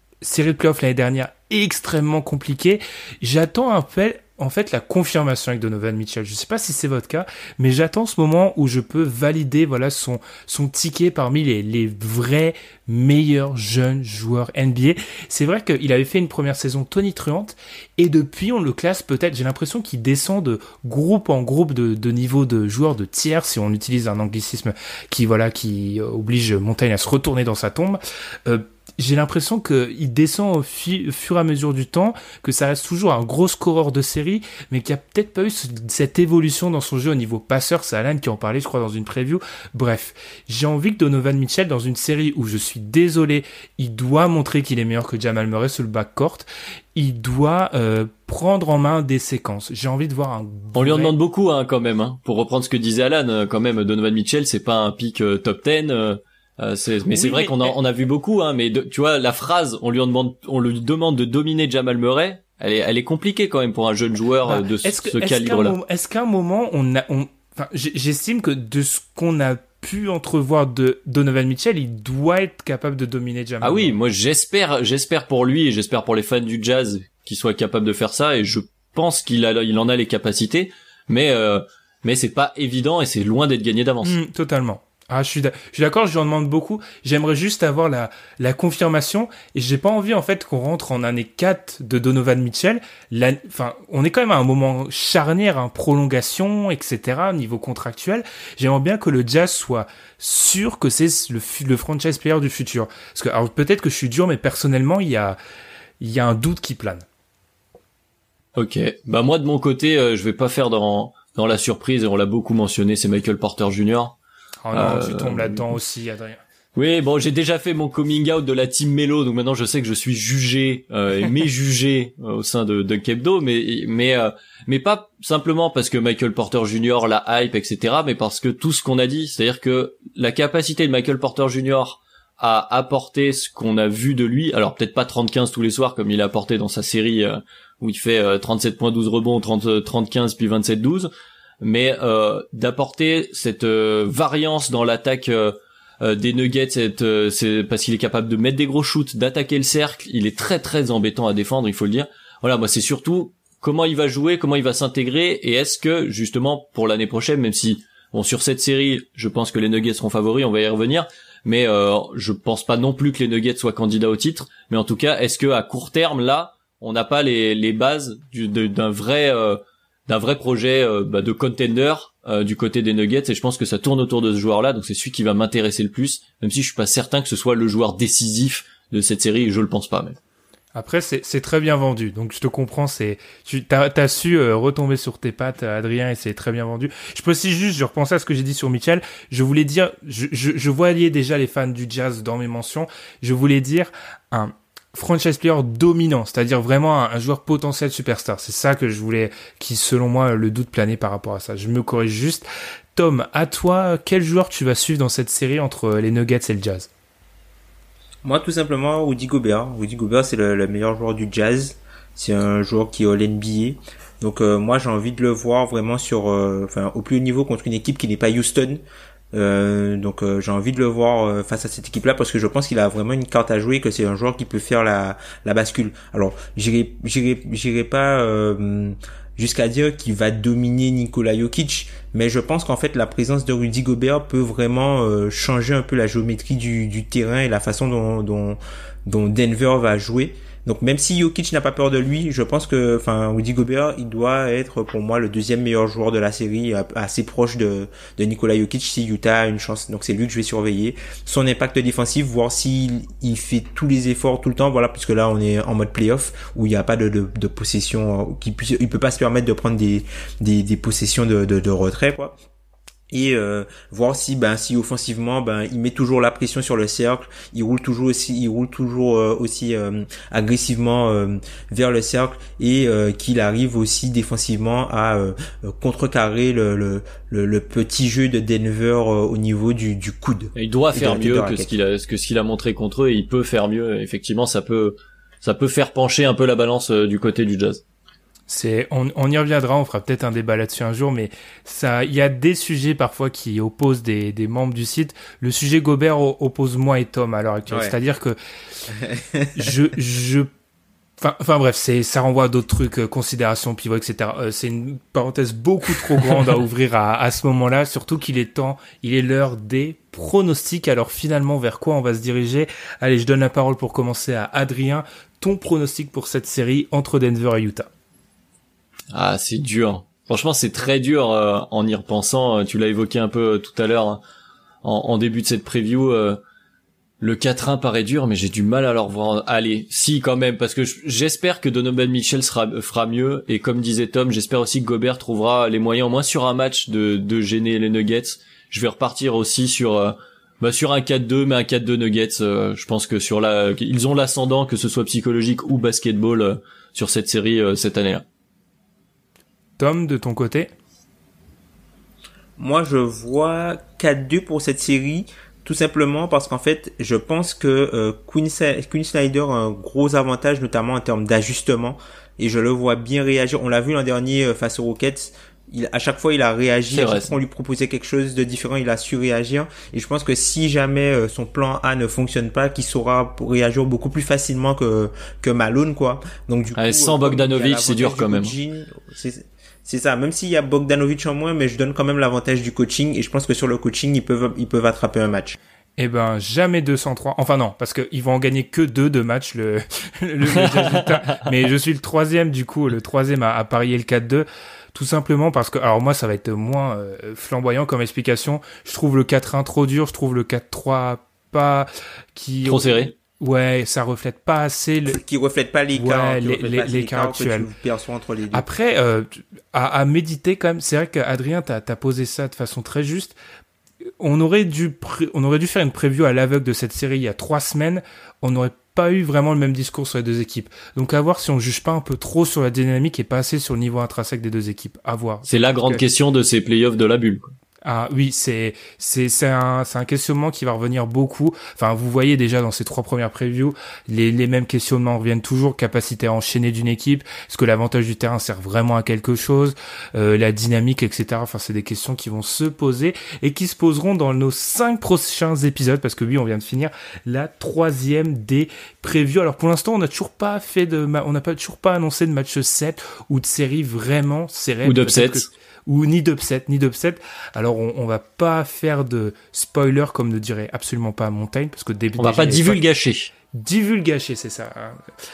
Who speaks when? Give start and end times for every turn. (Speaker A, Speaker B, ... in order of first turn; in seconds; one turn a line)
Speaker A: 0.2-51.1
Speaker B: 50.7-65.8
Speaker A: 57.1-57.8
Speaker A: 64.5-73.9
Speaker B: 73.6-84.1
Speaker A: 84.0-105.4
Speaker A: 106.0-107.0
Speaker B: 108.5-114.1
Speaker A: 114.6-116.4
Speaker B: 114.7-115.7
Speaker B: 116.8-141.1
Speaker B: 141.6-180.2
Speaker A: 180.7-206.9
Speaker C: 208.2-218.8
Speaker C: 219.3-262.4
Speaker C: 263.1-281.7
Speaker B: 280.5-287.8
Speaker A: 288.5-298.4
Speaker C: 297.7-297.9
Speaker C: 298.9-299.7
Speaker A: 299.6-300.5
Speaker A: 301.2-317.9
Speaker B: 319.1-324.2
Speaker B: 324.8-326.4
Speaker B: 327.2-348.2
Speaker A: 349.8-350.7
Speaker C: 352.6-385.6
Speaker B: 366.9-367.3
Speaker B: 376.8-378.5
Speaker A: 386.0-405.2
Speaker B: 402.6-403.1
Speaker C: 405.1-408.6
Speaker A: 405.9-407.7
Speaker A: 408.5-413.4
Speaker A: 414.2-426.0
Speaker B: 425.5-427.5
Speaker A: 427.8-462.8
Speaker B: 454.8-455.4
Speaker B: 462.2-463.3
Speaker A: 463.5-465.0